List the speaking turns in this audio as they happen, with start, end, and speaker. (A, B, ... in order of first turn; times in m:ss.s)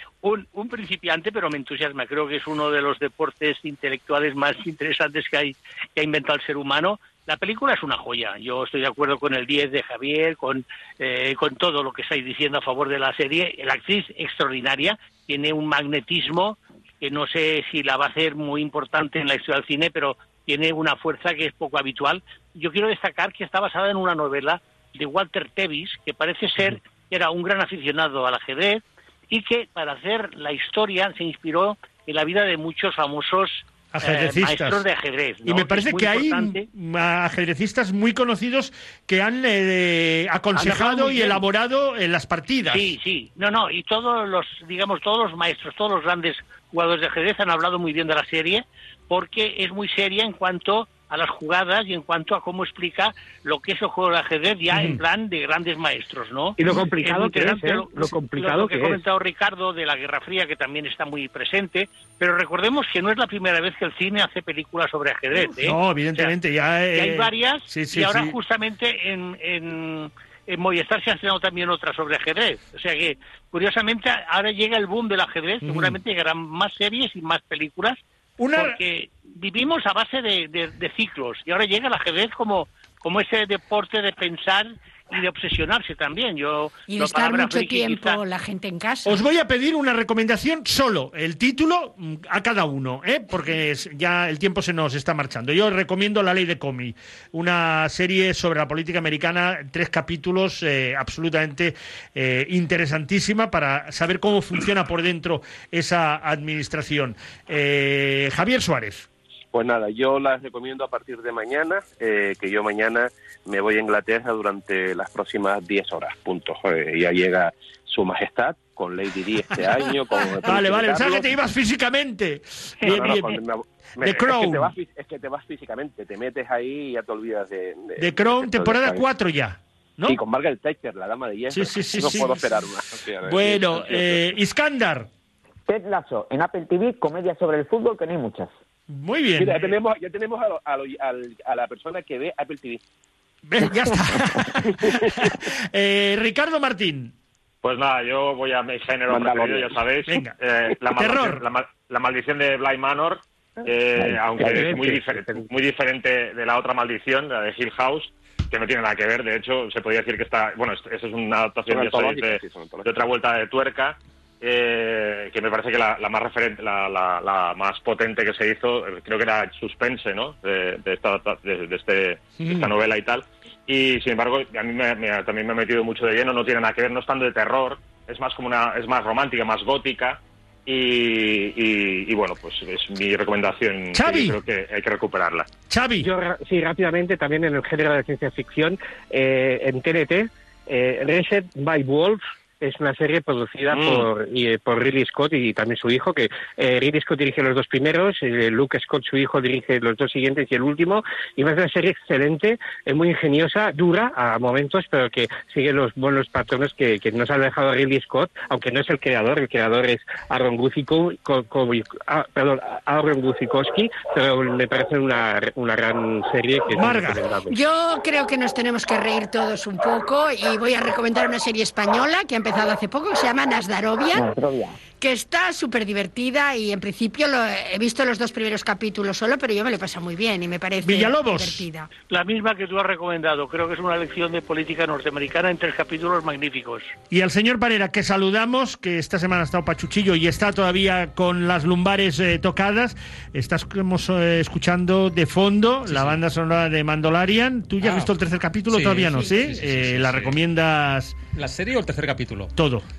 0:00.2-0:36.6 A
0:33.9-0:34.8 B
0:35.4-0:42.9 B
0:40.6-0:41.4 A
0:42.7-1:06.4 A
0:56.6-0:59.0 C
1:05.5-1:08.4 B
1:06.9-1:18.0 A
1:15.6-1:16.0 B
1:18.4-1:18.8 B
1:18.6-1:28.2 A
1:26.9-1:29.2 D
1:29.0-1:49.1 B
1:49.5-2:01.4 E
2:00.4-2:03.4 B
2:02.8-2:09.0 E
2:04.0-2:04.7 B
2:08.0-2:10.2 B
2:10.0-2:14.2 E
2:11.5-2:12.5 B
2:13.2-2:15.1 B
2:15.7-2:18.5 F
2:18.9-2:19.8 B
2:19.4-2:22.8 E
2:23.5-2:27.1 B
2:24.9-2:25.1 E
2:27.6-3:05.5 G
2:29.1-2:29.8 E
2:30.1-2:30.4 B
2:31.0-2:31.4 B
2:34.1-2:35.5 C
2:41.7-2:42.9 E
3:03.9-3:04.4 B
3:05.7-3:06.1 B
3:06.0-3:37.6 C
3:13.7-3:14.1 G
3:36.7-3:37.2 B
3:37.5-3:44.3 D
3:44.1-3:44.8 F
3:45.0-3:51.9 D
3:50.8-3:51.6 B
3:52.1-3:56.9 A
3:57.1-4:11.1 B
4:05.9-4:06.2 H
4:07.8-4:08.1 H
4:08.7-4:10.4 H
4:11.4-4:12.5 H
4:12.6-4:12.8 B